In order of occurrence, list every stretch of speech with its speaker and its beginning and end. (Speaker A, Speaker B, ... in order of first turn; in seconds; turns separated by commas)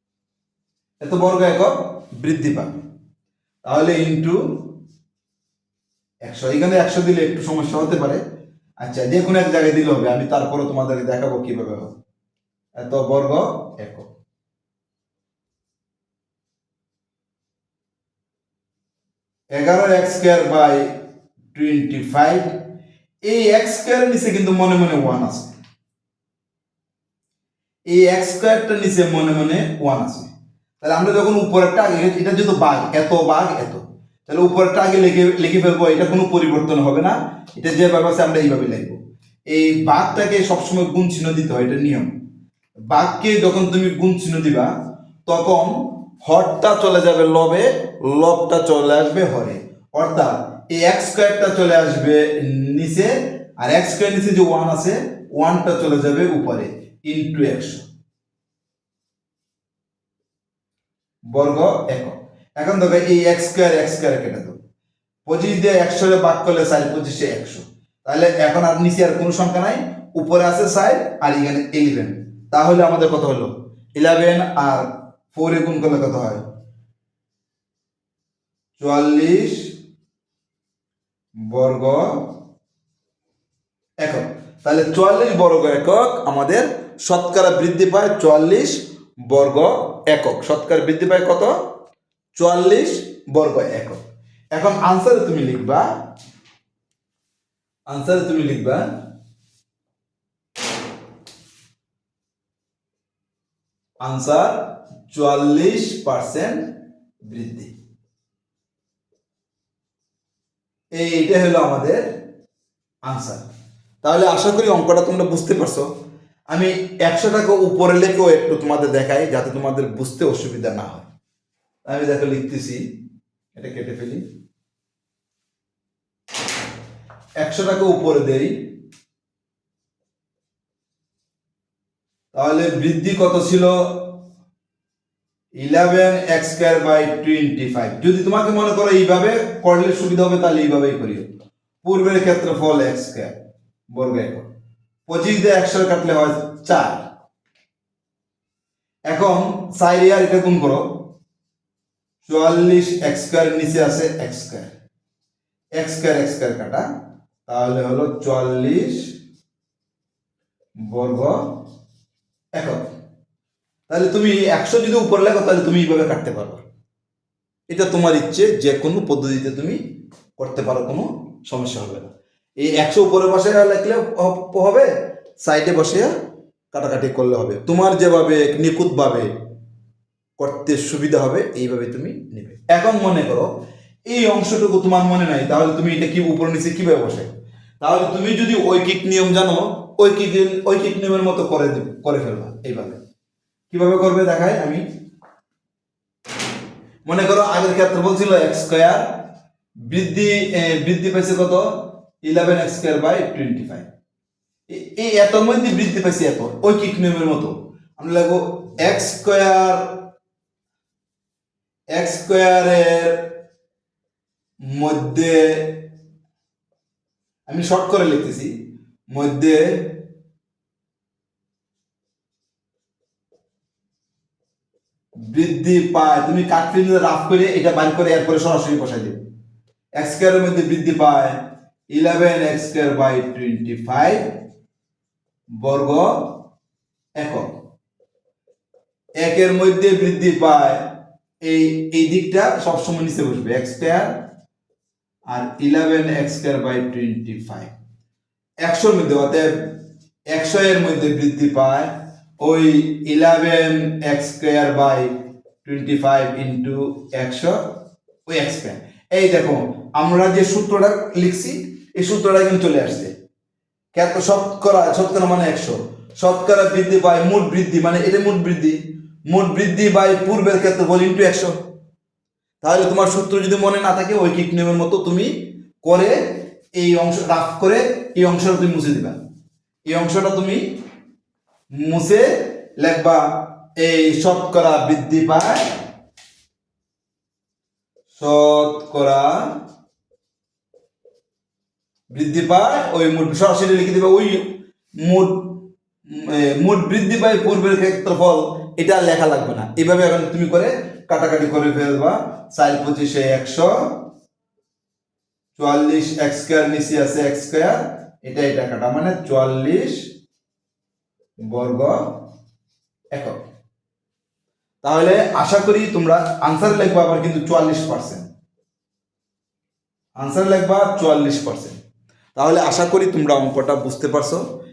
Speaker A: 1.0-2.8, Speaker A: 3.6-4.8, Speaker A: 6.2-8.2, Speaker A: 8.8-12.0, Speaker A: 12.8-14.1, Speaker A: 19.5-20.9, Speaker A: 21.5-22.7, Speaker A: 23.2-25.5, Speaker A: 27.9-30.3, Speaker A: 30.8-42.1, Speaker A: 42.9-44.7, Speaker A: 45.2-57.8, Speaker A: 61.3-64.6, Speaker A: 65.2-76.4, Speaker A: 78.8-79.7, Speaker A: 81.5-82.4, Speaker A: 84.0-91.5, Speaker A: 92.3-94.0, Speaker A: 94.5-95.9, Speaker A: 97.9-98.9, Speaker A: 104.0-107.7, Speaker A: 110.9-112.2, Speaker A: 113.0-113.4, Speaker A: 114.0-115.9, Speaker A: 116.5-121.0, Speaker A: 121.8-122.8, Speaker A: 123.5-124.2, Speaker A: 127.4-128.8, Speaker A: 132.3-134.2, Speaker A: 135.5-141.3, Speaker A: 141.8-143.3, Speaker A: 143.9-144.5, Speaker A: 145.1-147.0, Speaker A: 149.1-151.1, Speaker A: 152.2-154.7, Speaker A: 155.8-156.9, Speaker A: 157.5-159.2, Speaker A: 160.8-161.7, Speaker A: 162.5-162.9, Speaker A: 163.9-166.6, Speaker A: 167.7-169.8, Speaker A: 170.4-176.1, Speaker A: 176.7-179.3, Speaker A: 180.4-193.0, Speaker A: 193.7-194.9, Speaker A: 197.0-203.9, Speaker A: 204.7-210.1, Speaker A: 211.9-213.4, Speaker A: 214.6-215.9, Speaker A: 217.5-220.1, Speaker A: 225.2-229.2, Speaker A: 229.9-234.4, Speaker A: 235.6-236.5, Speaker A: 237.2-237.6, Speaker A: 239.2-244.3, Speaker A: 245.3-247.7, Speaker A: 248.6-255.1, Speaker A: 255.6-263.1, Speaker A: 263.9-271.6, Speaker A: 272.6-279.2, Speaker A: 279.9-280.8, Speaker A: 281.7-285.8, Speaker A: 288.1-289.6, Speaker A: 292.1-304.1, Speaker A: 305.5-310.1, Speaker A: 311.4-312.2, Speaker A: 313.1-313.4, Speaker A: 314.8-318.3, Speaker A: 320.2-321.8, Speaker A: 322.4-324.5